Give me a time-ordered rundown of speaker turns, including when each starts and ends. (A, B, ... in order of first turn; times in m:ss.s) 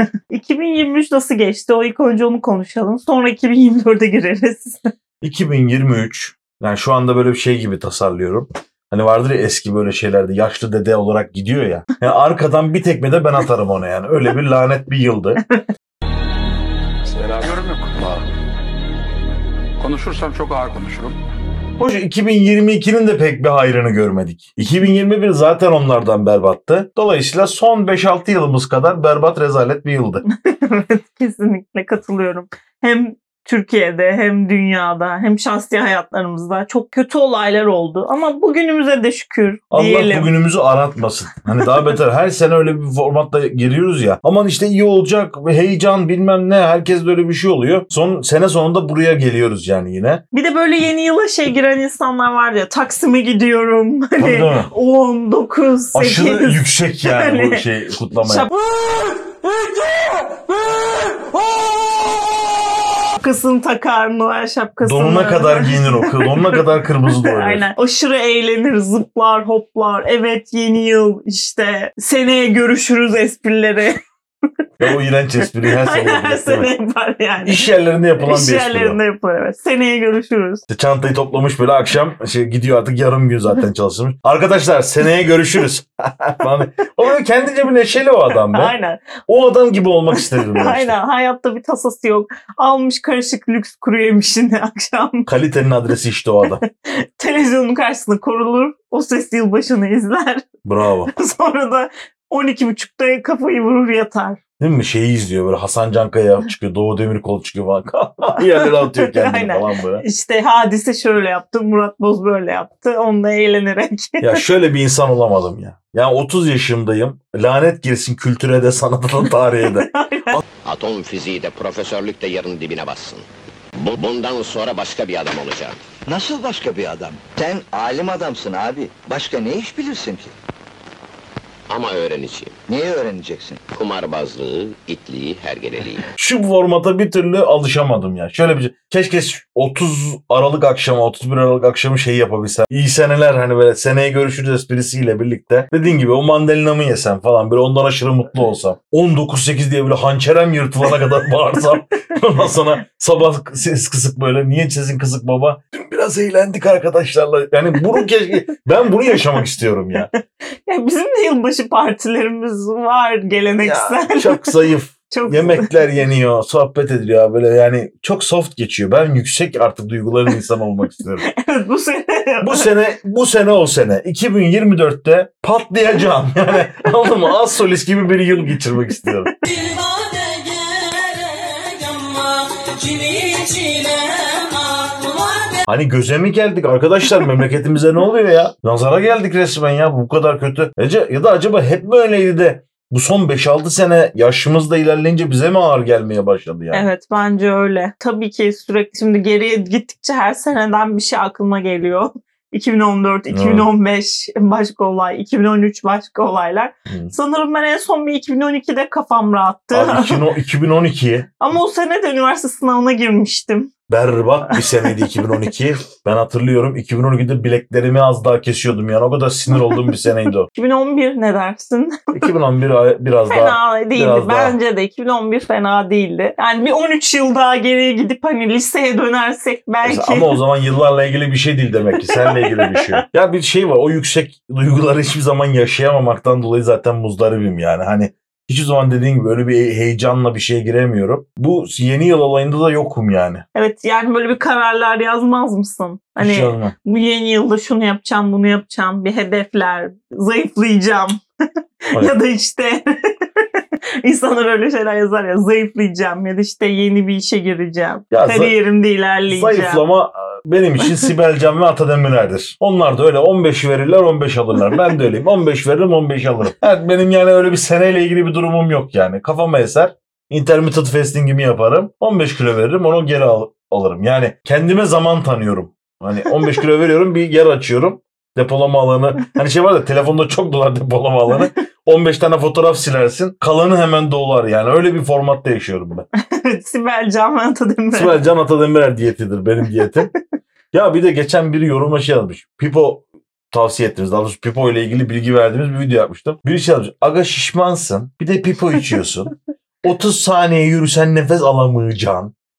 0:00.3-0:04.9 A
0:05.2-0:15.4 B
0:17.0-0:18.2 C
0:19.8-0:21.2 C
0:21.8-0:30.2 B
0:30.4-0:40.3 A
0:39.7-0:50.2 B
0:50.3-0:57.6 A
0:54.2-0:54.7 B
0:55.9-0:58.5 B
1:03.2-1:14.0 A
1:04.8-1:07.7 B
1:14.8-1:16.7 B
1:15.6-1:17.7 A
1:17.4-1:19.0 B
1:18.2-1:20.6 A
1:20.7-1:28.7 B
1:28.5-1:29.1 A
1:29.3-1:31.0 B
1:30.1-1:35.3 A
1:35.3-1:36.6 B
1:36.8-1:40.5 A
1:40.6-1:41.1 B
1:41.1-1:44.4 A
1:44.6-1:50.0 B
1:48.4-1:54.4 A
1:54.2-2:00.4 B
1:59.6-2:00.4 A
2:00.6-2:03.3 D
2:03.8-2:05.8 D
2:06.1-2:10.3 E
2:11.7-2:12.6 D
2:12.7-2:13.6 E
2:13.7-2:16.1 D
2:16.2-2:40.1 B
2:40.1-2:44.6 A
2:43.6-2:51.3 B
2:45.1-2:45.8 A
2:51.3-2:52.7 A
2:52.4-2:59.3 B
2:59.4-3:05.6 A
3:05.7-3:16.9 B
3:16.7-3:30.2 A
3:23.3-3:23.7 B
3:26.9-3:27.1 B
3:29.7-3:31.3 B
3:31.4-3:33.7 A
3:33.9-3:40.5 B
3:34.5-3:35.0 A
3:40.5-3:42.3 A
3:42.1-3:44.6 B
3:43.3-3:50.4 A
3:49.8-4:03.4 B
3:52.0-3:53.0 A
4:03.6-4:11.2 A
4:06.2-4:06.7 B
4:11.9-4:13.4 A
4:14.0-4:19.8 A
4:18.1-4:18.5 B
4:19.3-4:46.1 B
4:46.3-4:48.2 A
4:47.9-4:50.1 B
4:50.7-5:02.3 B